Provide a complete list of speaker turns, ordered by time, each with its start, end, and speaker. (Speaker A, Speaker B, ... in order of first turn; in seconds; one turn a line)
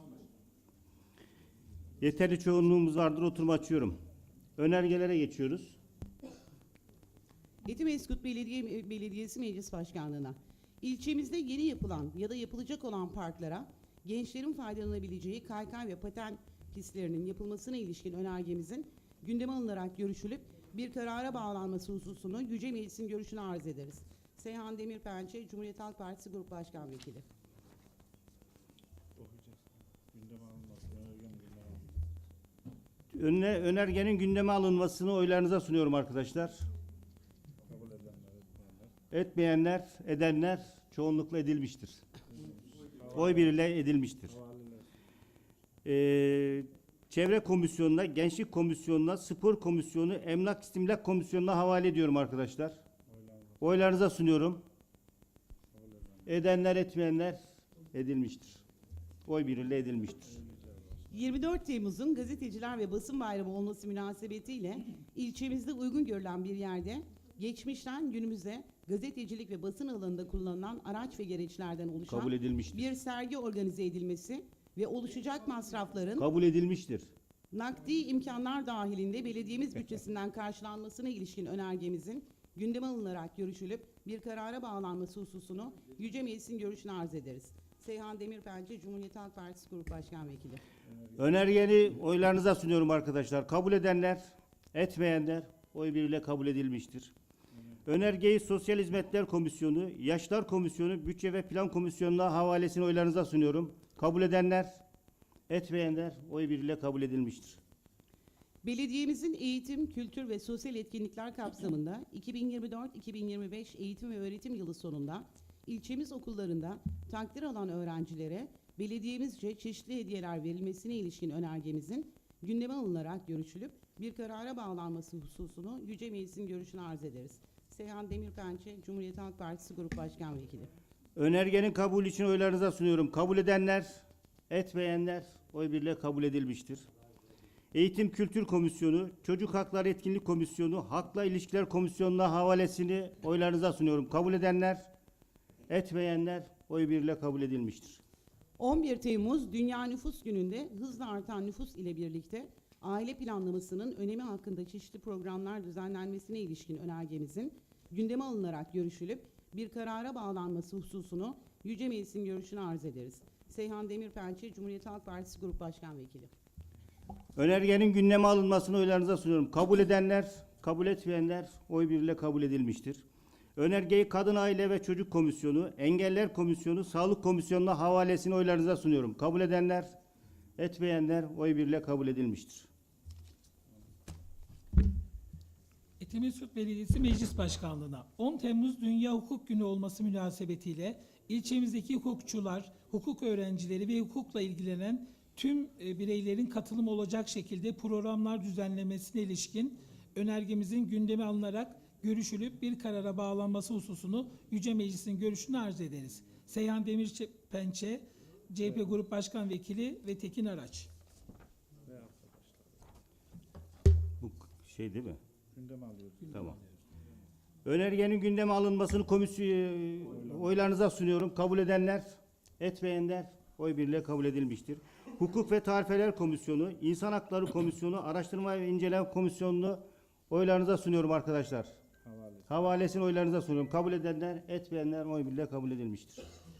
Speaker A: 2.0-4.0
Speaker A: 4.6-5.8
Speaker B: 7.7-27.2
Speaker C: 29.2-31.9
Speaker A: 33.1-36.6
Speaker C: 37.6-38.9
Speaker A: 39.1-42.0
Speaker C: 42.4-43.4
Speaker A: 43.1-44.4
Speaker C: 44.3-44.9
Speaker A: 45.9-52.8
Speaker C: 53.1-53.6
Speaker A: 53.6-54.6
Speaker C: 55.7-56.2
Speaker A: 56.3-57.4
Speaker A: 57.9-58.6
Speaker A: 59.3-60.3
Speaker C: 60.3-61.1
Speaker B: 61.1-76.3
Speaker A: 72.1-72.9
Speaker A: 76.2-77.1
Speaker B: 77.5-90.6
Speaker A: 91.2-97.1
Speaker A: 97.9-104.8
Speaker A: 105.5-107.6
Speaker B: 108.6-130.7
Speaker A: 131.2-136.9
Speaker A: 137.7-144.9
Speaker A: 145.7-148.0
Speaker B: 148.6-166.3
Speaker A: 167.4-173.1
Speaker A: 173.6-179.9
Speaker A: 180.6-182.7
Speaker D: 186.0-210.9
Speaker C: 211.9-212.7
Speaker A: 214.2-215.2
Speaker C: 215.5-216.4
Speaker A: 216.3-216.6
Speaker A: 217.7-231.8
Speaker C: 232.1-232.5
Speaker A: 232.5-236.2